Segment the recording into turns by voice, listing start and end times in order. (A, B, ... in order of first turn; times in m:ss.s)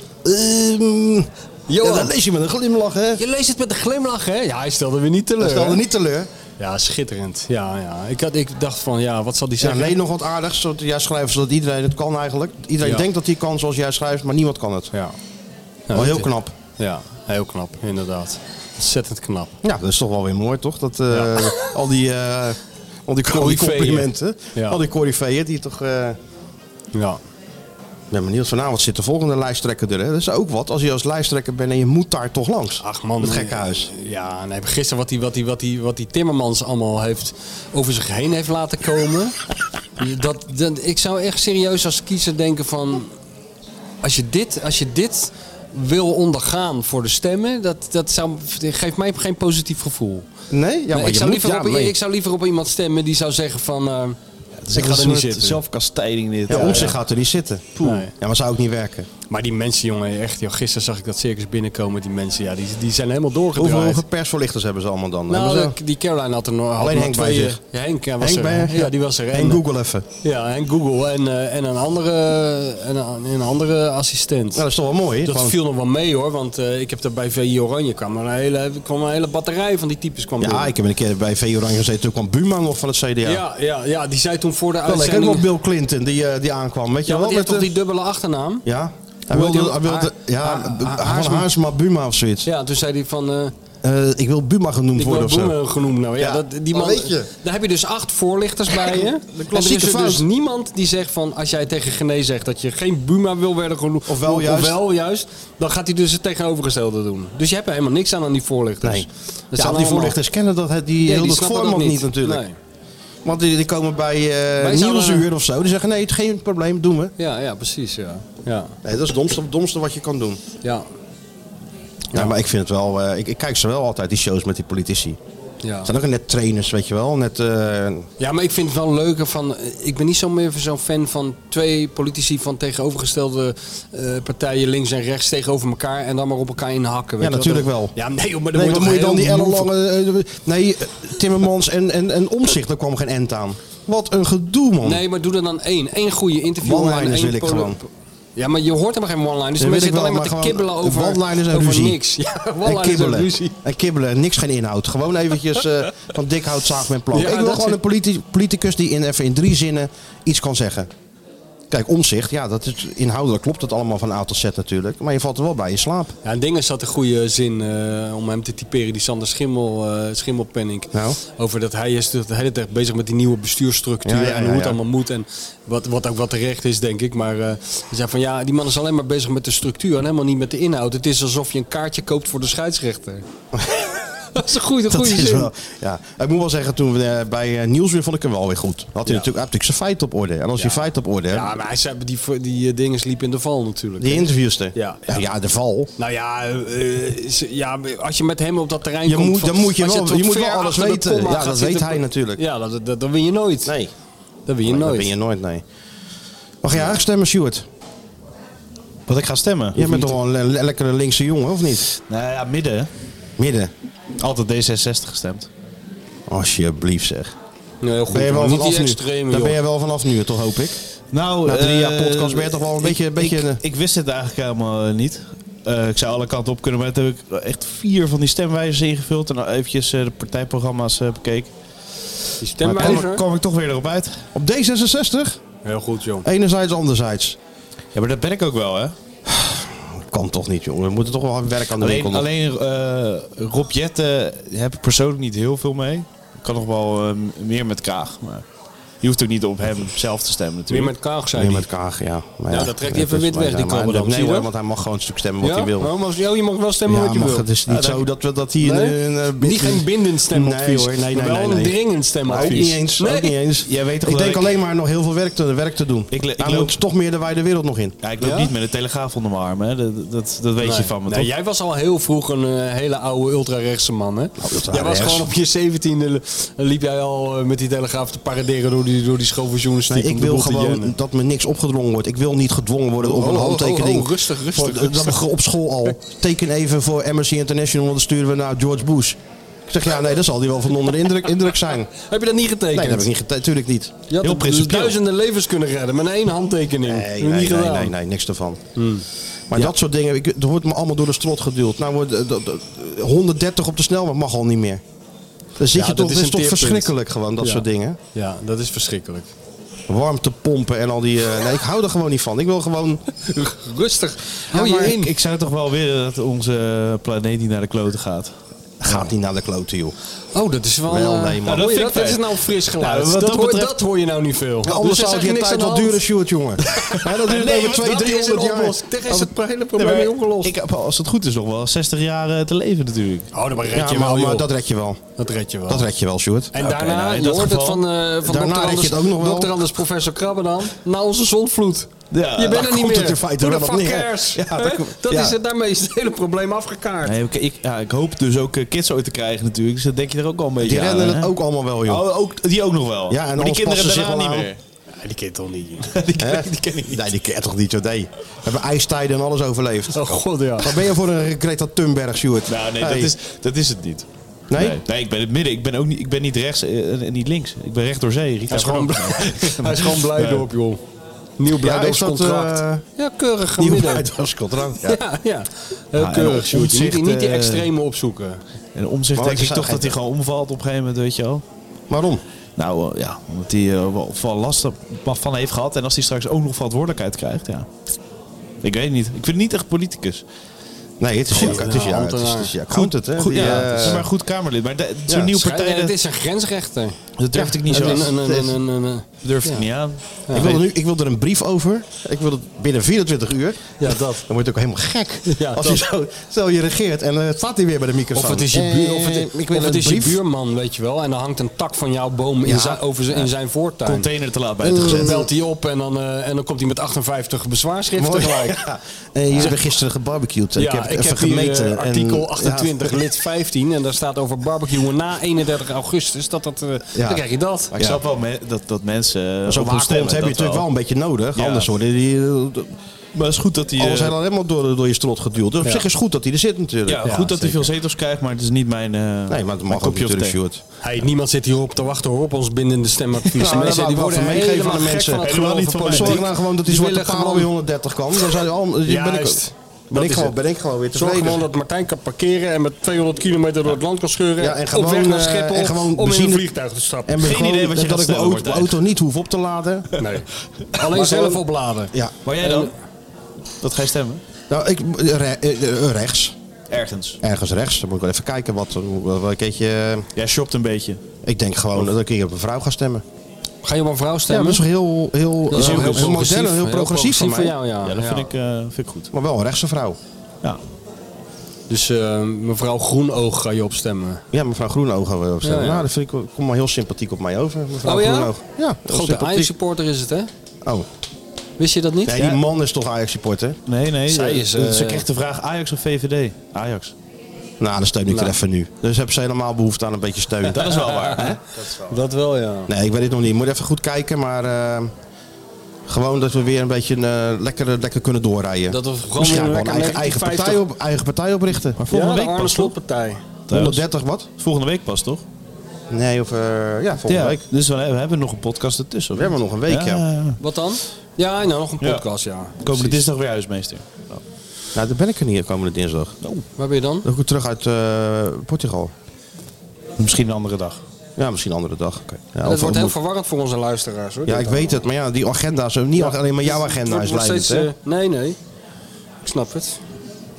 0:00.2-0:03.2 A
0:01.7-0:02.1 B
0:03.2-0:05.8 B
0:05.4-0:06.3 A
0:06.6-0:10.0 B
0:09.6-0:14.9 A
0:12.8-0:13.0 B
0:15.9-0:19.5 B
0:15.9-0:16.5 A
0:19.6-0:26.2 A
0:21.1-0:21.6 B
0:23.3-0:24.8 B
0:26.9-0:27.2 B
0:28.1-0:33.9 A
0:32.8-0:39.3 B
0:40.0-0:43.1 B
0:44.0-0:50.2 B
0:50.5-0:51.9 A
0:50.9-0:54.2 B
0:54.6-0:57.0 C
0:54.7-0:55.6 B
0:56.5-0:59.1 A
0:56.5-0:56.9 B
0:57.8-0:58.0 C
0:57.8-0:58.1 B
0:59.3-1:04.0 B
1:03.6-1:05.8 A
1:05.3-1:09.6 B
1:06.8-1:07.6 A
1:08.2-1:10.0 A
1:10.2-1:14.6 B
1:14.5-1:15.6 A
1:15.2-1:20.7 B
1:20.4-1:23.4 A
1:23.2-1:25.5 B
1:24.8-1:27.7 A
1:27.0-1:28.6 B
1:28.6-1:32.5 A
1:29.3-1:31.5 B
1:32.4-1:33.5 B
1:33.8-1:35.6 A
1:35.0-1:50.2 B
1:36.2-1:37.3 A
1:38.7-1:40.2 A
1:44.0-1:44.8 A
1:48.8-1:52.4 A
1:51.0-1:52.6 B
1:53.2-1:57.1 A
1:54.6-1:55.3 B
1:57.2-1:58.7 B
1:58.8-2:00.4 A
2:02.1-2:05.2 A
2:05.6-2:05.9 B
2:05.8-2:08.1 A
2:08.2-2:19.7 B
2:17.2-2:17.9 A
2:18.5-2:25.0 A
2:24.8-2:33.6 B
2:26.6-2:27.8 A
2:29.6-2:32.0 A
2:32.6-2:40.9 A
2:37.1-2:37.8 B
2:41.7-2:46.1 A
2:46.2-3:03.2 B
2:50.9-2:51.2 A
2:54.0-2:54.8 A
3:03.5-3:03.9 A
3:04.3-3:05.5 B
3:04.9-3:11.6 A
3:10.6-3:15.1 B
3:14.0-3:15.9 A
3:16.0-3:23.7 B
3:19.0-3:22.4 A
3:23.6-3:23.9 A
3:24.5-3:25.1 B
3:24.6-3:25.6 A
3:26.6-3:27.6 A
3:29.1-3:29.8 C
3:29.7-3:31.9 A
3:29.8-3:30.0 B
3:32.0-3:32.9 C
3:33.4-3:33.7 A
3:34.2-3:35.5 C
3:36.3-3:37.3 A
3:37.8-3:39.6 B
3:38.1-3:40.8 A
3:41.1-3:51.5 C
3:41.4-3:43.6 A
3:52.4-3:53.2 B
3:52.6-3:54.2 C
3:52.6-3:53.1 A
3:54.3-3:55.4 A
3:55.6-3:56.2 B
3:56.2-3:57.4 A
3:57.9-3:58.9 C
3:59.3-4:02.2 A
4:01.8-4:08.4 C
4:09.0-4:10.9 C
4:10.7-4:11.6 B
4:11.4-4:15.9 A
4:12.5-4:14.5 B
4:15.4-4:17.4 B
4:16.9-4:28.0 A
4:17.7-4:18.0 C
4:18.6-4:23.4 B
4:22.3-4:22.6 C
4:23.6-4:24.5 C
4:26.1-4:26.8 C
4:28.0-4:31.3 C
4:28.2-4:28.5 B
4:30.6-4:40.9 B
4:34.4-4:35.3 A
4:39.9-4:51.9 A
4:43.0-4:45.2 B
4:52.0-4:53.1 B
4:52.7-4:53.9 A
4:54.1-4:57.9 B
4:54.2-4:55.0 C
4:56.8-4:58.6 A
4:58.8-4:59.7 B
4:59.5-5:04.8 A
5:05.6-5:08.0 A
5:05.7-5:09.3 B
5:09.9-5:13.0 A
5:13.3-5:15.1 B
5:14.5-5:15.0 A
5:14.8-5:18.3 C
5:18.8-5:19.9 A
5:20.3-5:26.0 B
5:20.9-5:21.6 A
5:21.4-5:23.8 C
5:24.6-5:28.8 A
5:26.8-5:28.1 C
5:27.5-5:30.5 B
5:29.8-5:33.3 C
5:33.3-5:34.5 B
5:33.7-5:35.0 A
5:35.2-5:35.9 B
5:35.7-5:36.5 A
5:36.5-5:47.2 B
5:36.6-5:37.8 C
5:38.2-5:39.5 A
5:42.1-5:42.7 C
5:42.5-5:45.4 A
5:47.0-5:51.3 C
5:50.6-5:52.0 A
5:51.8-5:54.5 C
5:53.1-5:54.5 A
5:55.0-5:55.9 B
5:55.9-5:57.1 C
5:56.2-6:03.1 A
5:59.9-6:00.7 B
6:02.5-6:10.5 C
6:04.5-6:04.8 A
6:08.5-6:10.8 B
6:11.4-6:14.1 B
6:11.5-6:12.8 A
6:13.6-6:15.0 A
6:14.8-6:18.4 B
6:16.0-6:17.7 C
6:18.7-6:21.4 C
6:19.2-6:19.9 A
6:21.9-6:22.2 A
6:22.6-6:27.6 C
6:28.6-6:30.2 C
6:31.0-6:34.1 A
6:31.3-6:32.5 B
6:31.4-6:31.6 C
6:32.7-6:35.9 C
6:33.3-6:33.9 B
6:35.1-6:37.0 B
6:37.2-6:38.5 C
6:37.3-6:38.3 A
6:37.7-6:39.6 B
6:39.2-6:40.6 C
6:40.3-6:40.6 B
6:40.3-6:50.2 A
6:43.8-6:44.2 B
6:45.3-6:45.8 B
6:48.1-6:54.1 B
6:52.4-6:52.8 A
6:53.8-6:55.1 C
6:54.6-6:55.3 A
6:54.8-6:58.6 B
6:58.0-7:03.0 A
7:00.6-7:07.7 B
7:06.9-7:08.0 A
7:07.8-7:10.7 C
7:09.5-7:12.7 A
7:11.3-7:11.7 C
7:13.1-7:14.1 C
7:13.8-7:17.6 A
7:16.9-7:20.4 C
7:17.0-7:17.6 B
7:19.3-7:20.6 A
7:20.8-7:27.5 B
7:23.3-7:25.3 A
7:25.2-7:26.3 C
7:25.8-7:31.4 A
7:28.8-7:30.4 B
7:30.9-7:37.3 B
7:34.4-7:36.4 A
7:37.1-7:39.9 A
7:37.2-7:38.8 C
7:40.0-7:42.7 B
7:40.9-7:41.4 A
7:42.2-7:42.7 C
7:43.6-7:44.2 C
7:44.5-7:46.3 A
7:46.7-7:47.2 C
7:47.2-7:50.1 A
7:50.2-7:51.0 C
7:51.2-7:53.0 A
7:53.6-7:54.6 B
7:54.3-7:57.5 A
7:55.5-7:58.3 B
7:55.5-7:56.2 C
7:57.8-7:59.1 C
7:59.1-8:00.0 A
8:01.7-8:04.2 B
8:04.3-8:09.5 A
8:05.4-8:05.8 B
8:07.8-8:08.3 B
8:08.8-8:10.3 B
8:11.6-8:12.1 B
8:12.1-8:13.6 A
8:12.1-8:12.4 C
8:13.7-8:16.9 C
8:14.1-8:15.0 B
8:17.6-8:20.7 A
8:18.1-8:18.4 B
8:20.5-8:21.7 C
8:20.6-8:21.3 B
8:21.9-8:22.7 B
8:22.7-8:24.9 A
8:25.9-8:31.8 A
8:28.7-8:30.6 B
8:31.8-8:32.7 C
8:31.9-8:33.2 B
8:33.5-8:35.2 C
8:33.5-8:34.3 A
8:35.9-8:37.4 A
8:37.0-8:40.4 C
8:39.1-8:40.0 A
8:40.4-8:43.0 B
8:42.6-8:44.2 C
8:44.7-8:46.2 A
8:46.6-8:47.0 B
8:47.0-8:48.9 A
8:50.0-8:50.8 C
8:51.2-8:52.9 A
8:52.4-8:54.8 B
8:54.3-8:57.7 A
8:56.0-8:58.4 B
8:59.2-8:59.8 B